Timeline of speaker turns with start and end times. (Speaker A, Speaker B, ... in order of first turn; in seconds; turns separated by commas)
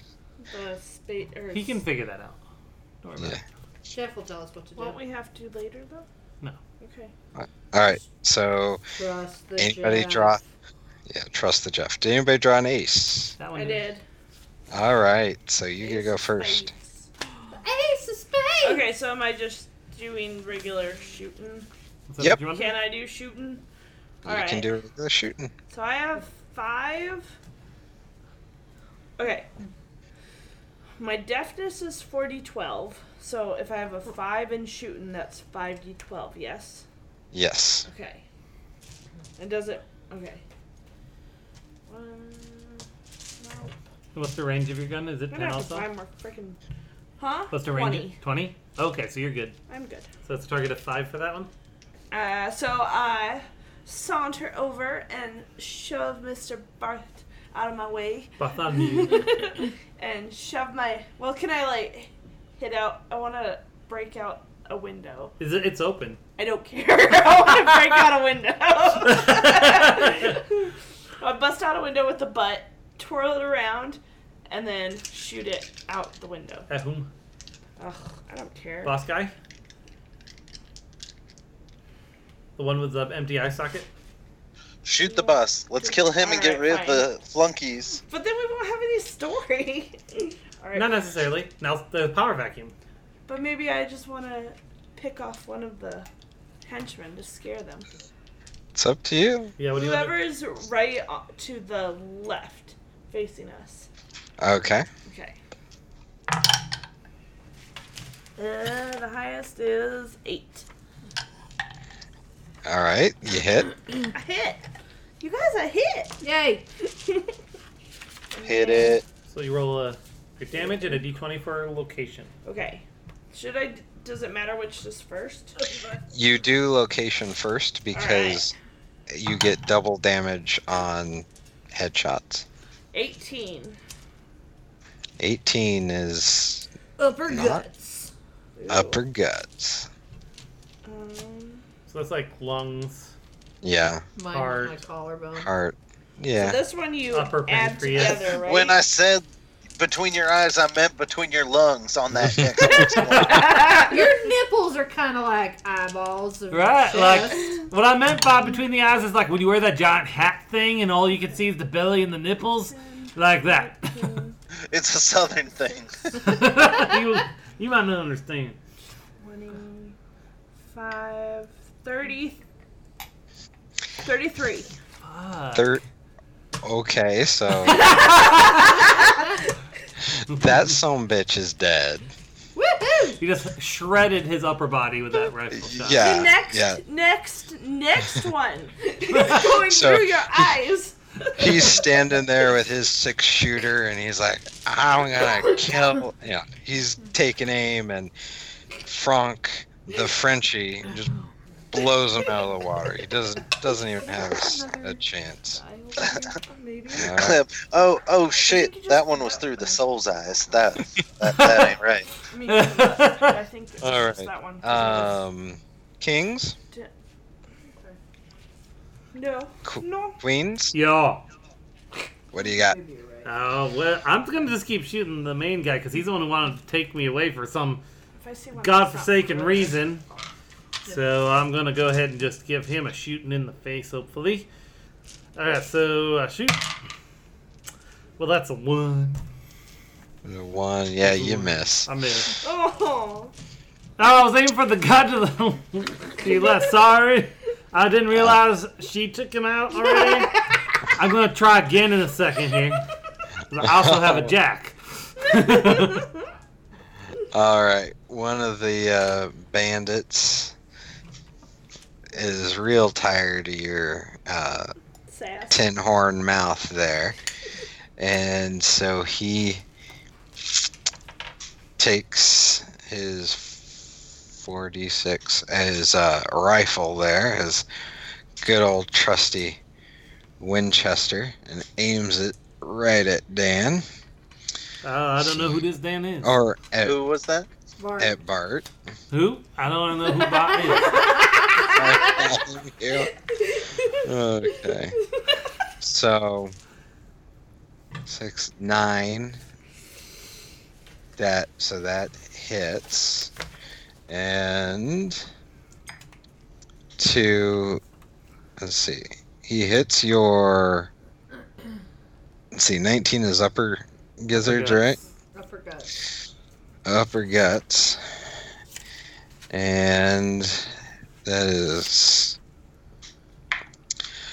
Speaker A: 0.4-1.8, Speaker B: 1.5-2.4, Speaker B: 3.0-3.4, Speaker C: 3.9-5.0, Speaker A: 4.8-6.1, Speaker A: 6.8-7.1, Speaker D: 7.3-8.8, Speaker C: 9.0-10.4, Speaker D: 9.6-10.4, Speaker D: 11.1-13.3, Speaker B: 13.4-13.9, Speaker A: 13.5-14.0, Speaker D: 14.7-16.7, Speaker A: 15.8-17.5, Speaker C: 17.5-18.9, Speaker A: 18.6-21.7, Speaker B: 22.1-22.8, Speaker A: 22.5-23.6, Speaker A: 24.2-24.7, Speaker D: 24.2-25.5, Speaker A: 25.7-27.3, Speaker A: 29.2-29.5, Speaker A: 31.0-36.8, Speaker D: 37.3-37.9, Speaker A: 37.9-38.2, Speaker A: 39.4-40.4, Speaker A: 41.9-42.9, Speaker A: 43.4-43.7, Speaker B: 44.1-45.9, Speaker A: 45.3-46.6, Speaker A: 47.2-48.2, Speaker B: 47.5-49.6, Speaker A: 49.7-50.1, Speaker B: 50.2-51.5, Speaker A: 52.1-65.3, Speaker B: 58.4-59.4, Speaker B: 65.4-66.2, Speaker A: 66.4-76.7, Speaker B: 69.1-70.3, Speaker B: 76.7-77.1, Speaker A: 77.8-79.0, Speaker B: 78.8-79.3, Speaker B: 82.6-83.9, Speaker E: 84.8-88.0, Speaker A: 85.0-87.0, Speaker A: 88.1-90.9, Speaker B: 90.7-92.7, Speaker A: 93.3-96.1, Speaker A: 96.6-97.9, Speaker D: 98.7-99.5, Speaker B: 99.6-100.2, Speaker A: 99.7-103.9, Speaker D: 104.4-104.9, Speaker A: 105.0-105.3, Speaker A: 108.3-110.7, Speaker D: 112.7-113.7, Speaker A: 114.1-114.6, Speaker A: 115.2-116.2, Speaker C: 116.2-116.7, Speaker A: 118.3-119.0, Speaker E: 118.4-119.0, Speaker B: 119.3-122.3, Speaker A: 120.5-121.0, Speaker A: 122.4-126.0, Speaker D: 126.1-128.5, Speaker A: 127.9-128.5, Speaker D: 129.1-132.4, Speaker A: 132.9-133.8, Speaker D: 135.2-136.7, Speaker C: 137.0-138.1, Speaker D: 137.3-137.6, Speaker A: 138.6-139.0, Speaker D: 138.7-139.9, Speaker A: 140.8-141.6, Speaker B: 141.9-143.1, Speaker D: 143.6-144.1, Speaker C: 144.2-145.5, Speaker B: 144.3-144.8, Speaker D: 145.4-146.6, Speaker A: 146.3-148.8, Speaker B: 147.1-148.4, Speaker E: 148.0-149.2, Speaker E: 149.8-153.5, Speaker B: 153.0-153.5, Speaker A: 153.1-154.1, Speaker C: 153.8-157.6, Speaker B: 156.5-164.2, Speaker A: 162.7-164.4, Speaker E: 164.7-166.4, Speaker B: 166.2-168.6, Speaker A: 169.2-169.9, Speaker A: 170.7-172.4, Speaker A: 174.0-174.7, Speaker B: 175.0-175.7, Speaker D: 175.5-175.8, Speaker D: 176.6-178.1, Speaker A: 177.7-178.8, Speaker B: 177.9-178.7, Speaker B: 180.3-180.8, Speaker D: 180.3-182.1, Speaker C: 182.6-183.2, Speaker B: 183.2-186.1, Speaker D: 185.5-186.8, Speaker A: 186.0-192.2, Speaker B: 189.1-189.4, Speaker D: 189.6-190.5, Speaker D: 191.4-198.1, Speaker A: 195.5-195.8, Speaker D: 198.8-201.1, Speaker D: 201.7-205.6, Speaker A: 204.0-204.9, Speaker C: 204.2-204.9, Speaker A: 205.5-207.1, Speaker E: 206.9-212.1, Speaker D: 207.0-207.4, Speaker A: 208.3-209.8, Speaker B: 211.3-211.7, Speaker A: 212.3-215.1, Speaker B: 212.4-213.3, Speaker D: 213.8-216.6, Speaker A: 219.1-220.2, Speaker D: 219.7-220.7, Speaker B: 220.7-221.2, Speaker D: 222.3-222.8, Speaker C: 222.4-223.3, Speaker B: 223.2-227.8, Speaker A: 228.2-229.7, Speaker B: 228.6-230.1, Speaker B: 230.8-234.5, Speaker B: 235.3-236.7, Speaker B: 238.2-239.2, Speaker D: 240.2-241.9, Speaker B: 241.0-242.4, Speaker A: 242.4-243.3, Speaker B: 244.0-250.4, Speaker B: 250.9-252.9, Speaker B: 253.5-256.1, Speaker D: 253.8-254.3, Speaker D: 257.3-260.5, Speaker D: 262.1-264.7, Speaker A: 265.1-265.7, Speaker D: 265.5-267.1, Speaker D: 268.0-269.6, Speaker D: 271.8-277.6, Speaker D: 278.4-279.6, Speaker D: 280.4-283.8, Speaker B: 284.8-286.4, Speaker D: 285.2-285.6, Speaker D: 286.2-286.9, Speaker E: 286.8-287.5, Speaker C: 287.8-288.1, Speaker D: 288.0-288.6, Speaker B: 289.1-291.1, Speaker C: 290.7-291.4, Speaker A: 290.8-292.3, Speaker D: 291.7-293.1, Speaker A: 293.2-294.0, Speaker D: 294.0-294.9, Speaker A: 294.5-295.3, Speaker D: 295.8-296.5, Speaker D: 298.1-299.4, Speaker D: 301.2-303.3, Speaker D: 304.1-305.2, Speaker D: 307.0-307.8, Speaker D: 308.6-310.9, Speaker D: 312.5-315.0, Speaker B: 314.3-314.8, Speaker C: 315.3-315.9, Speaker D: 316.9-318.0, Speaker D: 319.5-320.7, Speaker D: 321.2-322.4